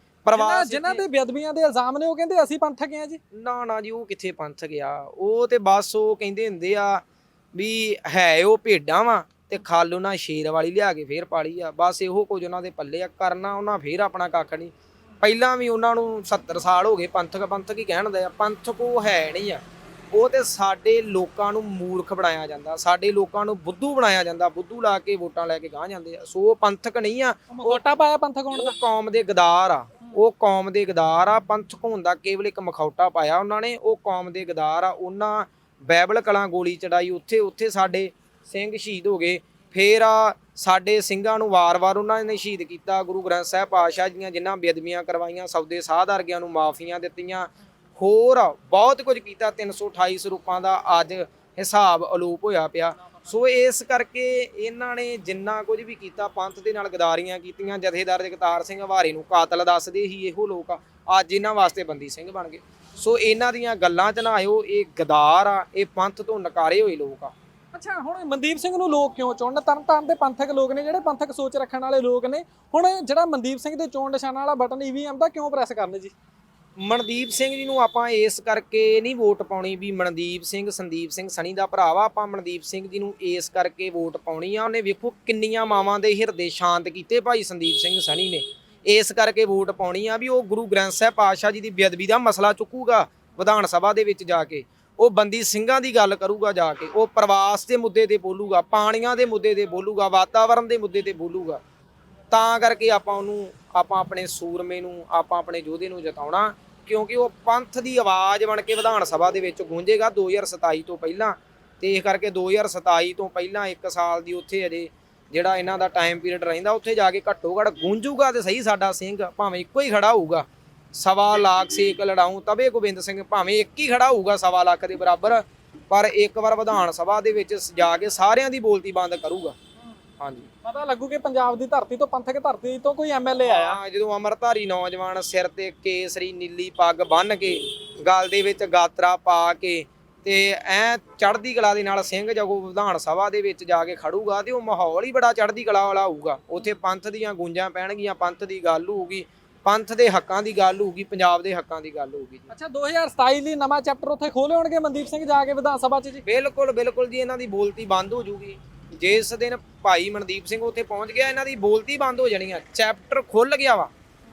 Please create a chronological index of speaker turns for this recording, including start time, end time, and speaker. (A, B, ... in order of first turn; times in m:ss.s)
0:00.2-0:01.0 A
0:00.3-0:03.2 B
0:03.3-0:27.8 A
0:27.5-0:28.8 B
0:28.5-1:07.3 A
1:07.7-1:16.1 B
1:16.8-1:41.6 A
1:42.3-2:09.6 A
2:10.2-2:10.5 A
2:10.6-2:13.8 B
2:13.4-2:32.5 A
2:32.5-2:36.2 B
2:36.2-2:43.9 A